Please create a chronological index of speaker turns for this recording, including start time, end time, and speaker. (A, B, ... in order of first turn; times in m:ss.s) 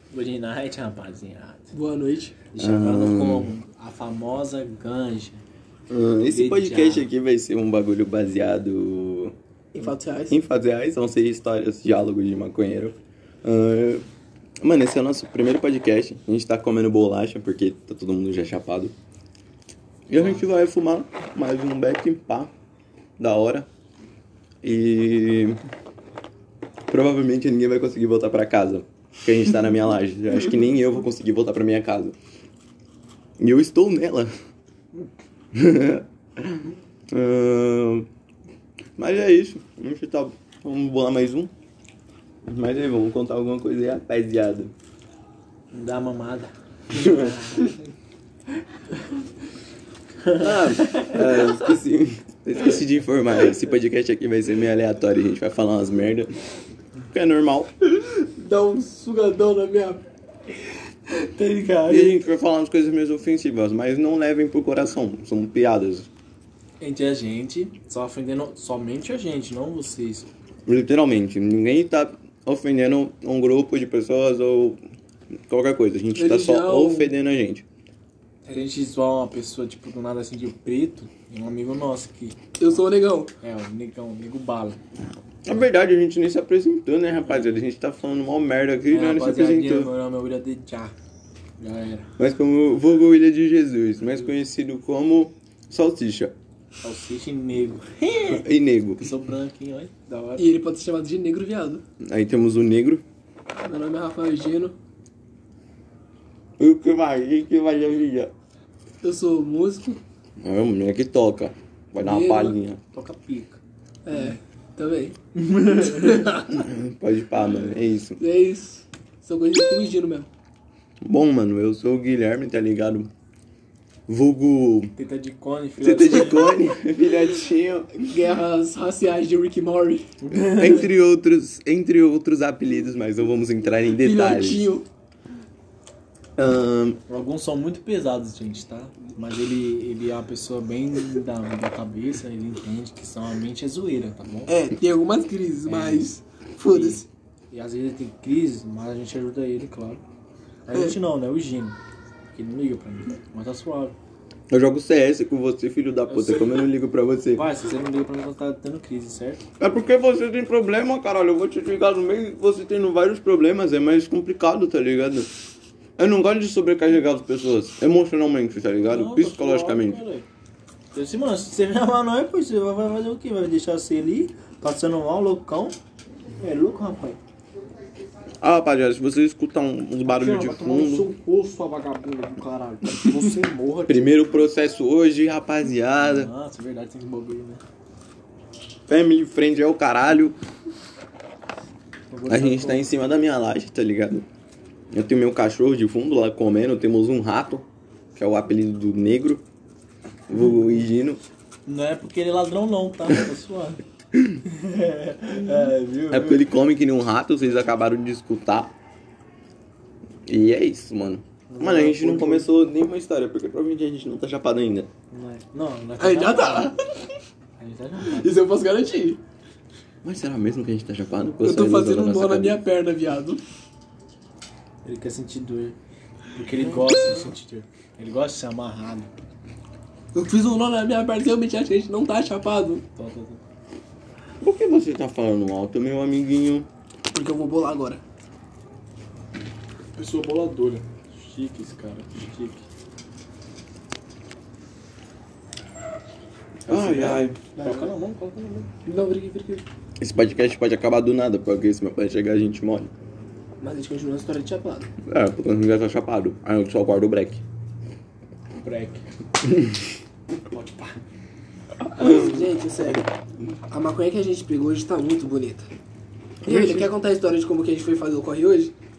0:00.1-0:01.7 A
0:01.7-0:02.4 B
0:02.5-0:05.4 A
0:02.6-0:03.5 C
0:05.9-0:09.4 C
0:06.3-0:07.1 A
0:09.7-0:10.4 B
0:10.3-0:14.0 C
0:14.6-0:19.0 C
0:20.1-0:22.5 C
0:23.2-0:23.7 C
0:24.6-0:25.6 C
0:26.9-0:32.2 C
0:33.4-0:34.3 C
0:35.5-0:38.1 C
0:39.0-0:41.5 C
0:42.4-0:44.7 C
0:45.7-0:47.8 A
0:46.9-0:47.3 C
0:50.2-0:51.3 A
0:50.4-0:56.3 C
0:57.1-0:57.7 C
0:58.4-1:00.0 B
0:58.5-0:59.3 A
1:01.2-1:02.2 A
1:01.8-1:06.1 C
1:06.8-1:10.3 A
1:10.7-1:14.8 C
1:15.5-1:17.7 C
1:16.2-1:17.1 B
1:18.4-1:22.4 A
1:22.6-1:23.3 B
1:23.4-1:24.8 A
1:25.4-1:29.9 C
1:27.3-1:27.6 A
1:28.9-1:30.9 A
1:31.6-1:32.1 A
1:32.2-1:36.3 C
1:36.8-1:38.4 A
1:38.3-1:39.1 C
1:39.0-1:40.4 A
1:40.4-1:41.8 B
1:42.0-1:43.0 C
1:43.6-1:44.8 B
1:46.6-1:48.3 C
1:49.0-1:50.0 B
1:50.4-1:52.8 C
1:52.0-1:52.6 B
1:52.9-1:53.6 A
1:54.0-1:56.6 B
1:55.4-1:56.4 A
1:56.5-1:58.2 C
1:58.2-2:00.3 B
2:01.0-2:03.1 C
2:04.1-2:04.9 C
2:05.0-2:06.6 A
2:05.8-2:07.9 C
2:08.0-2:10.1 B
2:10.2-2:10.9 A
2:10.3-2:14.7 C
2:14.0-2:14.9 B
2:16.4-2:17.0 C
2:17.1-2:24.5 A
2:24.5-2:27.0 B
2:25.7-2:26.1 A
2:26.7-2:30.0 A
2:30.7-2:31.8 A
2:32.3-2:33.9 A
2:34.5-2:37.5 C
2:36.1-2:36.7 A
2:37.3-2:39.4 A
2:39.6-2:45.3 C
2:46.0-2:50.0 C
2:48.8-2:50.2 A
2:50.9-2:55.8 A
2:56.4-2:57.2 A
2:58.4-3:01.1 C
3:00.1-3:04.3 A
3:03.9-3:06.3 C
3:06.0-3:07.6 A
3:08.9-3:10.4 C
3:12.1-3:12.8 A
3:12.3-3:14.2 C
3:14.9-3:19.4 C
3:20.3-3:21.2 C
3:21.7-3:23.8 A
3:24.4-3:26.5 A
3:26.1-3:28.7 C
3:30.3-3:34.9 C
3:31.5-3:32.5 A
3:35.1-3:36.7 A
3:36.0-3:36.9 B
3:37.6-3:38.4 A
3:38.1-3:39.2 B
3:40.0-3:42.6 C
3:41.4-3:43.4 B
3:44.8-3:45.8 A
3:46.3-3:49.1 A
3:50.1-3:52.8 B
3:53.0-3:53.4 A
3:54.4-3:56.7 C
3:57.1-3:58.0 B
4:00.0-4:02.6 A
4:06.7-4:08.7 A
4:06.7-4:07.4 C
4:07.5-4:07.9 B
4:08.8-4:09.6 B
4:10.0-4:12.9 C
4:13.6-4:14.9 B
4:15.0-4:17.4 C
4:18.6-4:19.0 A
4:19.4-4:19.8 C
4:20.5-4:21.0 A
4:21.9-4:25.7 B
4:22.0-4:22.4 C
4:26.4-4:26.9 C
4:26.4-4:28.7 B